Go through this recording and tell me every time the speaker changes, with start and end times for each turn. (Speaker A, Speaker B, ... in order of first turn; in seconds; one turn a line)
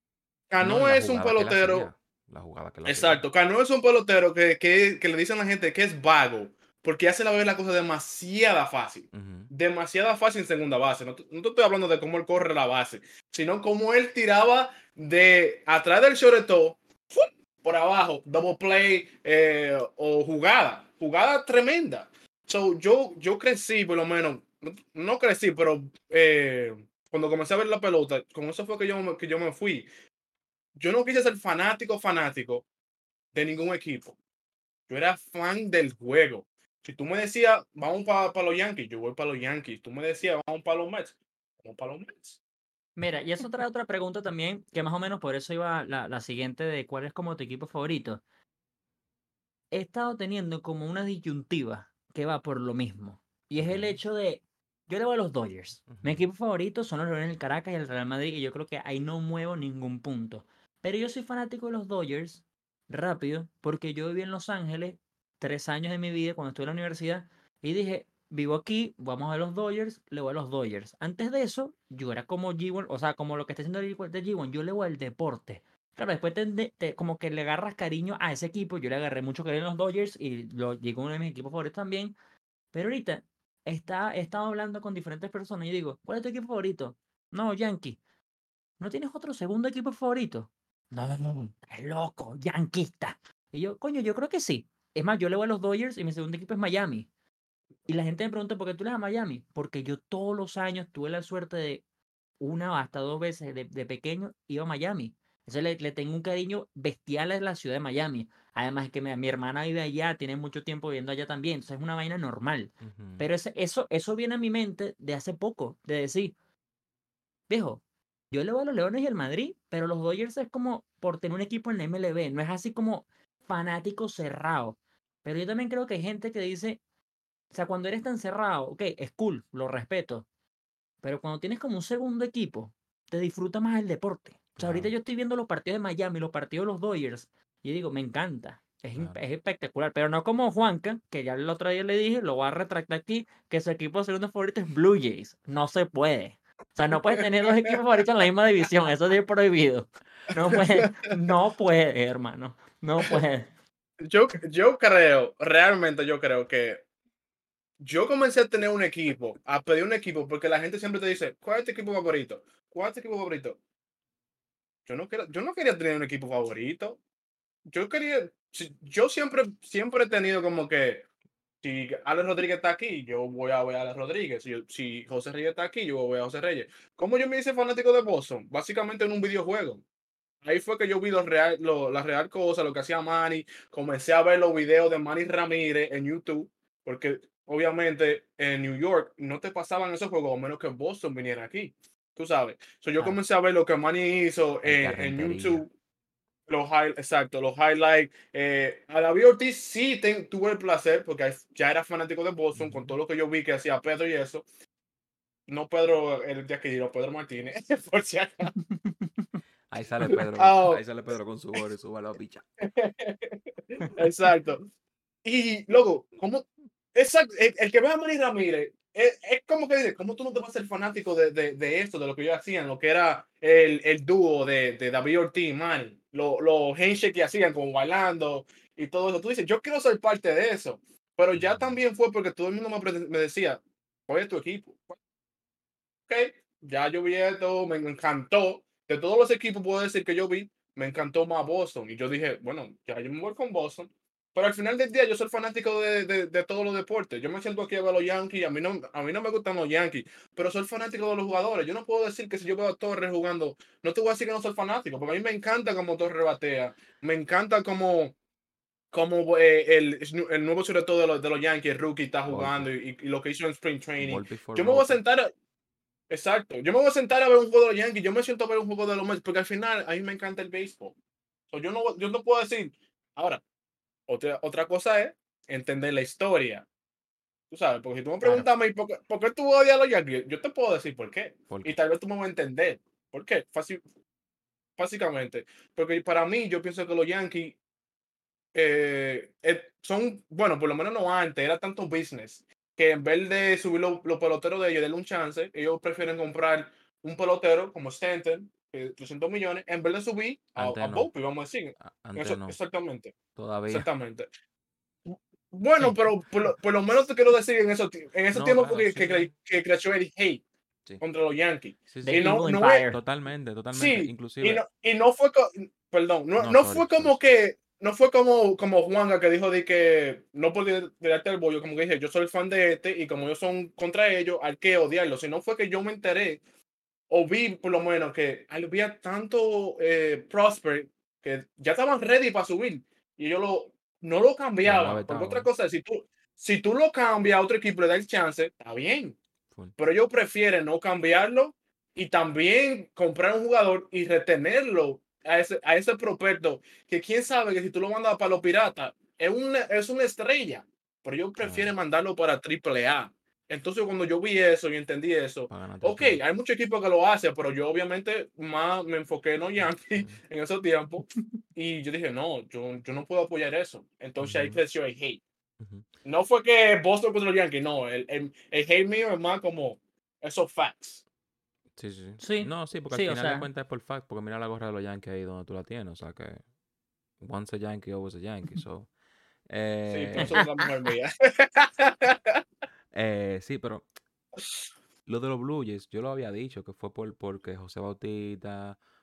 Speaker A: 0.5-1.9
Speaker B: 0.6-3.2
Speaker A: 2.9-29.9
Speaker B: 9.1-9.5
Speaker A: 30.8-32.6
Speaker A: 33.3-34.2
Speaker A: 34.9-42.4
Speaker C: 43.0-48.2
Speaker C: 49.7-82.2
Speaker B: 53.5-54.0
Speaker B: 55.9-56.2
Speaker C: 82.7-88.0
Speaker C: 88.8-97.1
Speaker C: 97.9-101.8
Speaker C: 102.4-116.3
Speaker B: 112.8-113.3
Speaker C: 117.5-126.8
Speaker C: 127.5-130.2
Speaker C: 131.0-153.5
Speaker B: 134.6-134.9
Speaker B: 138.9-139.2
Speaker A: 147.1-147.8
Speaker A: 150.5-151.1
Speaker A: 154.0-156.8
Speaker A: 157.8-163.6
Speaker A: 164.8-167.0
Speaker A: 167.7-171.1
Speaker A: 171.6-179.8
Speaker A: 180.4-195.7
Speaker B: 194.6-195.7
Speaker A: 196.5-204.4
Speaker A: 205.5-208.5
Speaker C: 208.7-209.3
Speaker B: 209.7-212.4
Speaker A: 210.1-210.8
Speaker A: 212.6-214.7
Speaker A: 215.2-235.0
Speaker B: 231.3-231.8
Speaker A: 236.1-258.1
Speaker A: 258.9-265.3
Speaker B: 262.3-262.7
Speaker B: 264.0-265.0
Speaker A: 266.1-270.9
Speaker A: 271.5-273.4
Speaker A: 274.1-276.6
Speaker A: 277.5-283.8
Speaker C: 278.2-278.5
Speaker B: 281.5-281.7
Speaker A: 284.8-287.6
Speaker A: 288.5-303.1
Speaker B: 300.6-301.1
Speaker B: 301.8-302.6
Speaker B: 303.3-303.9
Speaker A: 303.7-304.3
Speaker A: 305.1-310.4
Speaker C: 305.8-306.1
Speaker B: 308.3-309.3
Speaker A: 311.0-312.8
Speaker B: 311.9-314.6
Speaker C: 312.0-313.0
Speaker A: 313.7-326.4
Speaker B: 316.4-317.2
Speaker A: 327.1-339.2
Speaker B: 334.6-335.5
Speaker A: 339.8-365.2
Speaker B: 351.4-351.7
Speaker B: 355.5-356.2
Speaker B: 359.6-360.2
Speaker B: 364.2-364.6
Speaker B: 365.6-365.9
Speaker A: 366.0-371.0
Speaker B: 371.8-376.4
Speaker C: 372.2-373.5
Speaker B: 377.2-378.9
Speaker B: 379.4-380.4
Speaker A: 379.9-382.4
Speaker B: 382.9-383.9
Speaker B: 385.1-388.8